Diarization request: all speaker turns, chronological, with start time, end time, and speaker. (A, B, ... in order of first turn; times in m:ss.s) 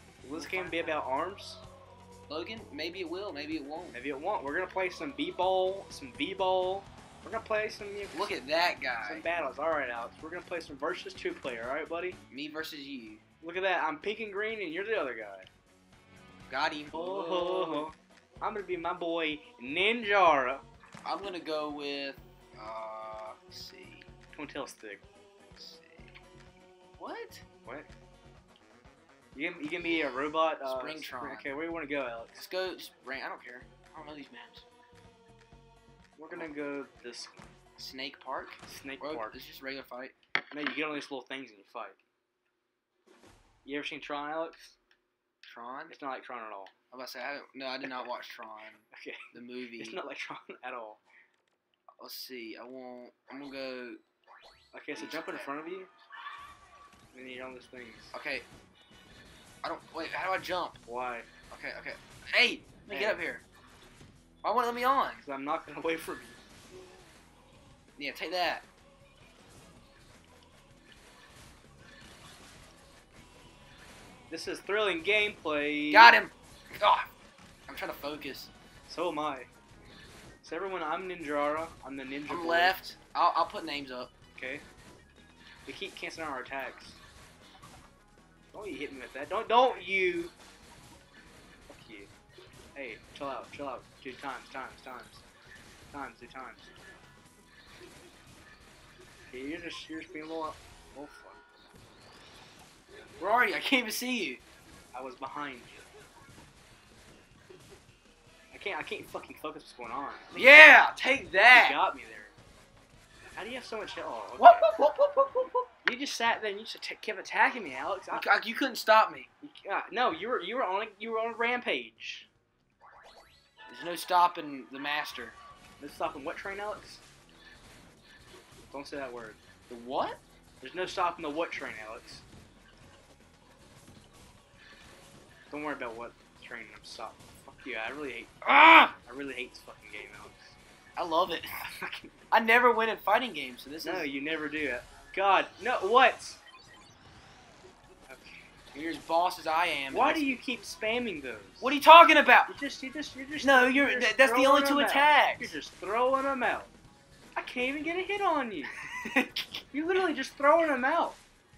0:00.2-0:01.6 A
0:00.3-0:01.0 B
0:02.3-0:04.0 B
0:03.9-0:08.4 A
0:08.1-0:09.3 B
0:09.0-0:12.2 A
0:12.3-0:13.2 B
0:13.4-0:15.5 A
0:16.5-0:17.9 B
0:16.9-0:20.6 A
0:21.0-0:24.1 B
0:24.4-0:25.0 A
0:25.6-0:26.1 B
0:27.0-0:27.4 B
0:29.4-0:32.4 A
0:30.6-0:31.5 B
0:32.4-0:34.6 B
0:36.2-0:37.4 A
0:37.8-0:40.1 B
0:38.7-0:39.4 A
0:40.5-0:42.0 A
0:43.6-0:44.8 A
0:45.5-0:46.0 B
0:45.9-0:46.7 A
0:46.9-0:50.0 B
0:48.9-0:51.0 A
0:52.0-0:54.0 B
0:54.7-0:55.9 A
0:55.0-0:55.6 B
0:57.1-0:58.1 A
0:58.1-0:58.5 B
0:59.6-1:00.8 B
1:00.9-1:01.3 A
1:01.5-1:03.4 B
1:02.9-1:03.2 A
1:04.4-1:05.2 B
1:05.2-1:06.4 A
1:08.0-1:08.6 B
1:14.3-1:16.1 A
1:15.9-1:17.1 B
1:17.7-1:18.5 B
1:18.9-1:19.5 A
1:20.4-1:22.8 A
1:22.3-1:24.1 B
1:24.4-1:24.6 A
1:25.7-1:27.0 A
1:28.5-1:30.3 A
1:31.7-1:32.1 A
1:32.8-1:35.2 A
1:35.9-1:36.7 A
1:39.3-1:41.4 A
1:43.2-1:44.4 B
1:44.9-1:45.9 A
1:48.5-1:50.4 A
1:50.3-1:51.8 B
1:51.5-1:52.3 A
1:53.4-1:54.7 A
1:54.4-1:55.7 B
1:55.8-1:58.3 A
1:58.1-1:59.3 B
1:59.4-2:02.3 A
2:03.7-2:05.4 B
2:05.8-2:07.0 A
2:08.7-2:09.4 A
2:09.7-2:10.2 B
2:10.6-2:12.2 A
2:15.5-2:18.4 A
2:18.4-2:19.0 B
2:19.0-2:20.6 A
2:21.0-2:21.5 B
2:21.6-2:22.2 A
2:22.3-2:24.1 B
2:23.8-2:26.4 A
2:28.1-2:28.4 A
2:28.7-2:30.4 B
2:29.9-2:31.8 A
2:31.6-2:32.5 B
2:32.5-2:36.7 A
2:33.4-2:35.6 B
2:37.4-2:38.8 A
2:38.8-2:39.6 B
2:39.7-2:41.2 A